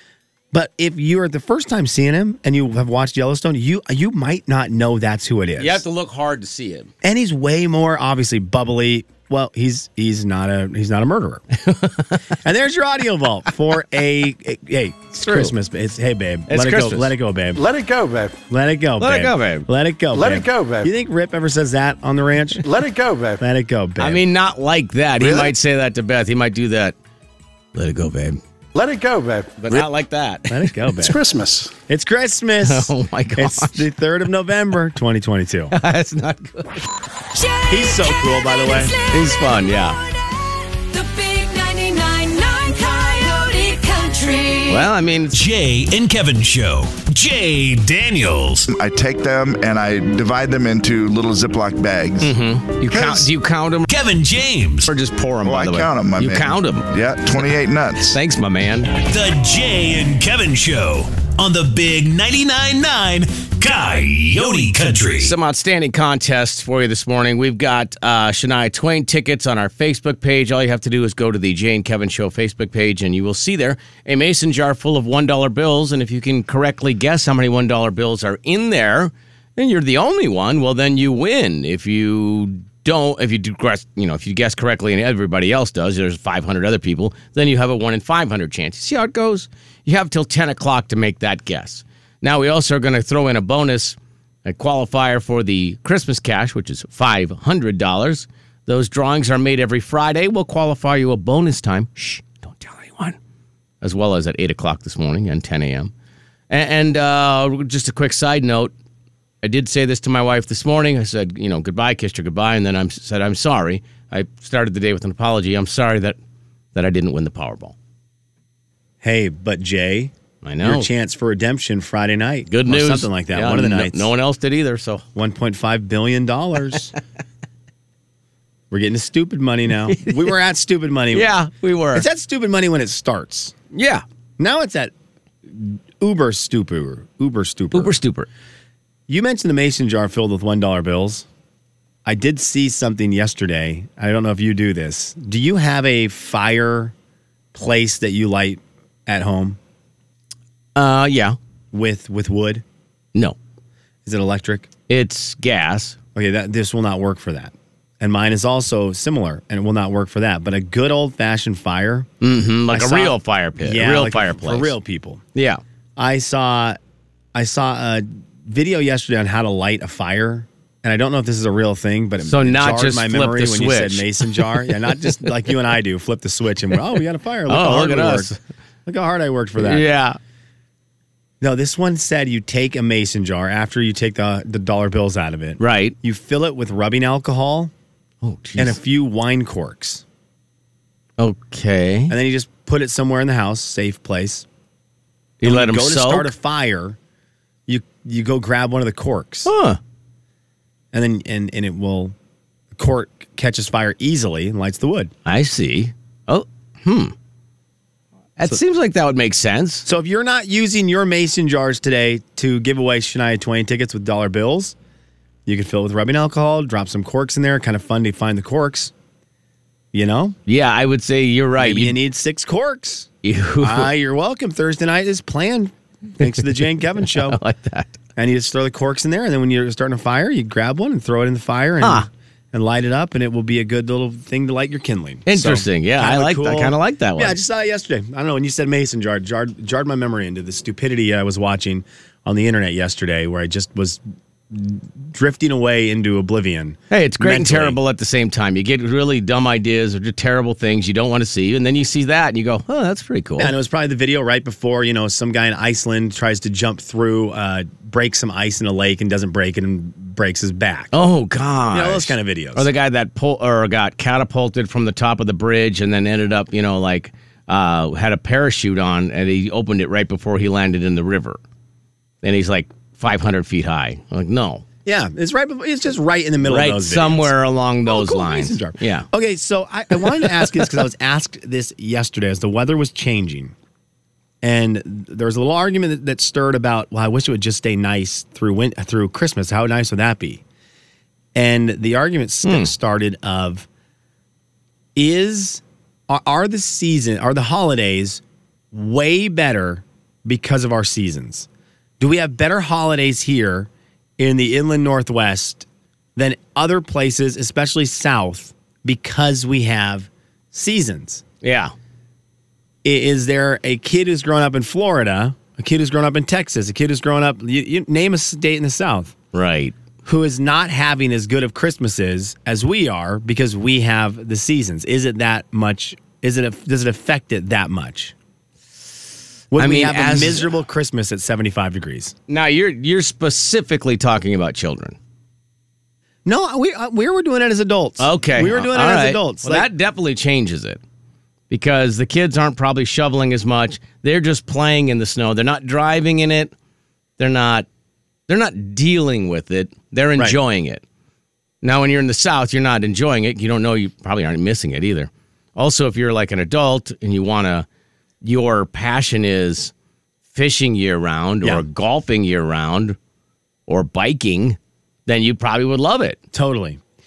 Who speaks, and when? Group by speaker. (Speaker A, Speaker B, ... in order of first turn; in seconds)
Speaker A: 0.5-5.8, 7.0-11.4, 12.4-17.6, 18.5-22.6, 23.4-24.2, 30.5-31.2, 31.9-35.7, 37.7-38.9, 119.0-124.1, 125.2-126.9, 128.7-131.3, 131.9-133.6, 134.4-134.9, 135.5-137.9, 139.1-141.3, 142.1-146.9, 147.5-149.6, 151.7-152.6, 154.1-154.7, 156.2-162.1, 162.7-165.2, 166.0-166.8, 167.3-178.3, 178.9-179.9, 181.4-187.7, 188.6-190.0, 192.1-194.5, 195.4-197.0, 197.7-199.5, 200.9-202.2, 202.7-205.1, 209.8-214.8, 215.5-218.9, 219.9-220.4, 221.6-223.1, 223.6-227.4, 228.2-247.8, 253.4-261.1, 261.7-262.7, 274.9-277.3, 277.9-283.6, 284.4-290.4, 291.4-293.7, 294.9-301.5, 302.0-311.2, 312.8-319.1, 320.1-328.1, 329.5-332.2, 336.2-339.7, 366.3-366.8
Speaker B: 5.6-6.9, 11.6-12.2, 15.2-15.5, 16.5-17.1, 19.0-19.7, 24.0-27.0, 27.8-28.4, 29.6-30.7, 32.6-33.9, 35.7-36.8, 39.1-40.0, 44.7-45.3, 52.2-53.9, 54.8-56.9, 58.1-58.9, 65.2-103.2, 103.8-105.9, 106.5-108.7, 109.4-116.2, 116.8-117.8, 120.4-120.9, 122.5-125.0, 129.9-130.3, 131.1-132.1, 133.7-134.0, 137.7-138.3, 150.8-151.4, 154.9-156.0, 162.2-164.8, 165.3-165.6, 172.2-175.2, 177.5-178.4, 179.6-180.2, 185.6-186.0, 188.2-188.8, 191.2-192.2, 195.4-196.3, 199.4-199.8, 205.3-207.1, 208.4-209.8, 220.5-222.0, 223.2-223.9, 227.0-227.9, 231.8-232.1, 235.3-237.4, 246.9-253.5, 260.9-271.4, 272.2-274.6, 276.4-279.1, 292.4-292.7, 311.4-311.7, 319.3-319.8, 329.6-330.5, 332.3-334.9, 338.0-340.8, 341.5-346.5, 347.2-347.7, 348.3-350.8, 351.6-357.7, 358.2-359.7, 360.3-363.0, 363.7-366.2
Speaker C: 17.6-18.4, 20.1-20.9, 22.6-23.4, 28.7-29.9, 31.0-31.8
Speaker D: 25.2-25.5, 48.7-53.3, 55.4-58.2
Speaker E: 37.4-39.3, 40.8-44.9
Speaker F: 45.3-48.7, 53.9-54.9, 59.0-65.3